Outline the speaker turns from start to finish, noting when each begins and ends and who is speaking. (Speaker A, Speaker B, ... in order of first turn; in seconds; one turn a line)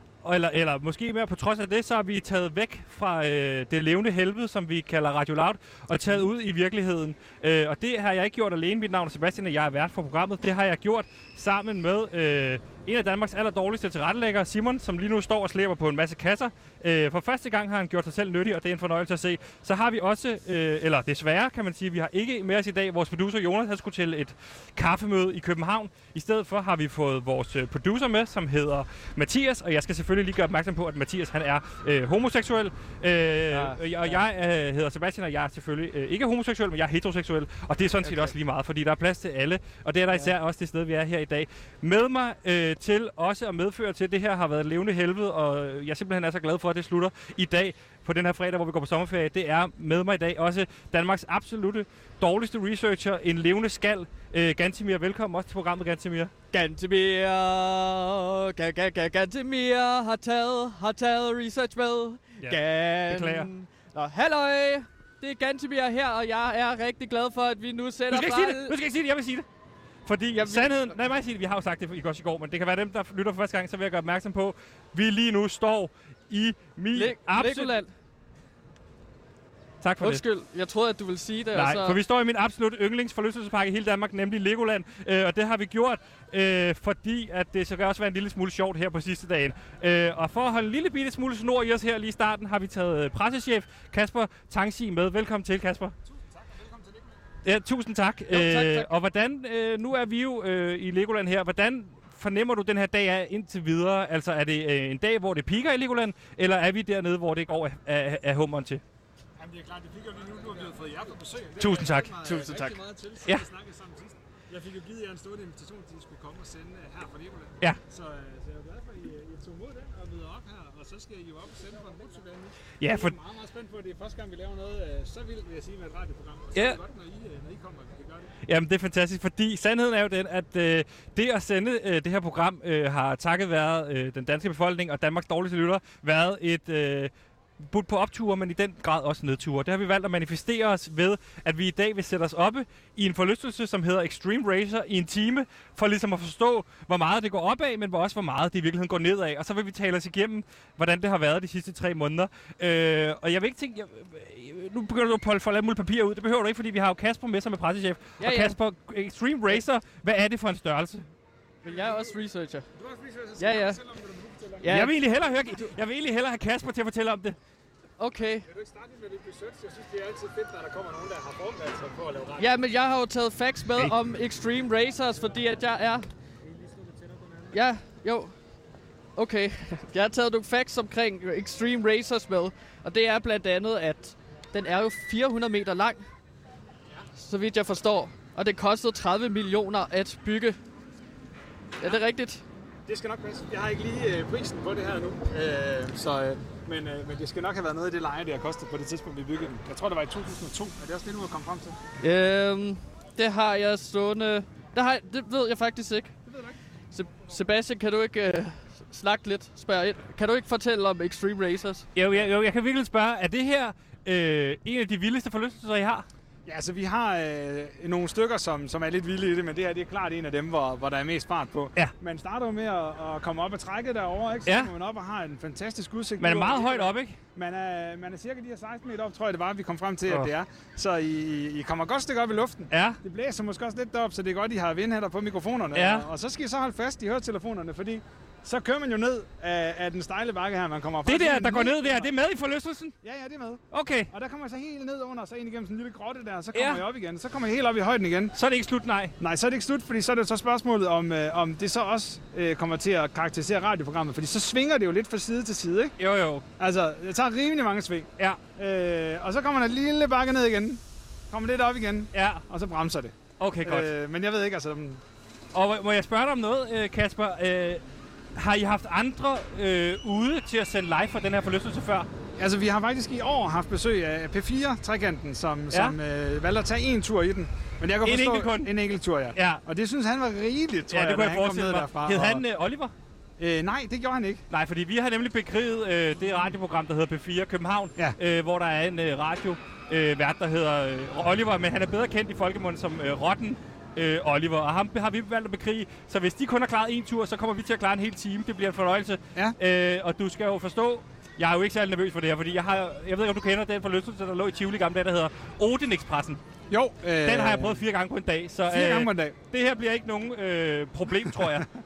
Speaker A: 0.2-56.3
Speaker B: 33.5-33.8
Speaker B: 56.5-68.8
Speaker A: 62.4-63.5
Speaker A: 68.1-69.5
Speaker A: 70.0-77.8
Speaker B: 70.4-70.7
Speaker B: 76.9-77.9
Speaker A: 79.8-80.2
Speaker B: 80.0-82.0
Speaker A: 81.5-95.9
Speaker C: 96.4-97.1
Speaker A: 97.4-108.8
Speaker B: 98.3-98.9
Speaker C: 109.4-128.3
Speaker A: 111.6-112.2
Speaker B: 112.2-112.8
Speaker A: 122.8-123.2
Speaker A: 126.5-126.8
Speaker A: 128.4-161.1
Speaker B: 158.2-158.6
Speaker B: 161.6-162.7
Speaker C: 162.8-164.7
Speaker B: 163.4-163.8
Speaker B: 164.6-164.9
Speaker A: 164.7-167.4
Speaker B: 168.0-168.4
Speaker C: 168.5-172.5
Speaker B: 172.4-176.1
Speaker C: 176.5-177.5
Speaker B: 177.5-178.3
Speaker B: 179.2-186.0
Speaker B: 187.2-190.6
Speaker B: 191.8-192.4
Speaker C: 192.9-201.8
Speaker B: 202.0-206.2
Speaker C: 206.3-206.5
Speaker B: 206.9-211.9
Speaker A: 211.9-216.1
Speaker C: 216.4-242.1
Speaker A: 224.4-224.7
Speaker A: 226.2-227.2
Speaker A: 232.7-233.0
Speaker A: 235.7-236.1
Speaker A: 241.0-242.9
Speaker C: 243.0-248.3
Speaker A: 243.7-244.1
Speaker A: 246.5-246.8
Speaker A: 248.3-249.1
Speaker C: 249.2-255.9
Speaker A: 256.0-256.4
Speaker C: 256.6-265.0
Speaker A: 262.1-262.4
Speaker A: 263.4-263.9
Speaker A: 265.5-267.8
Speaker A: 268.3-272.1
Speaker C: 272.4-282.4
Speaker A: 275.7-276.0
Speaker A: 278.0-278.7
Speaker A: 279.3-279.6
Speaker A: 280.9-282.9
Speaker C: 283.4-284.4
Speaker A: 284.5-306.4
Speaker C: 306.7-307.8
Speaker A: 307.2-311.7
Speaker C: 308.7-309.4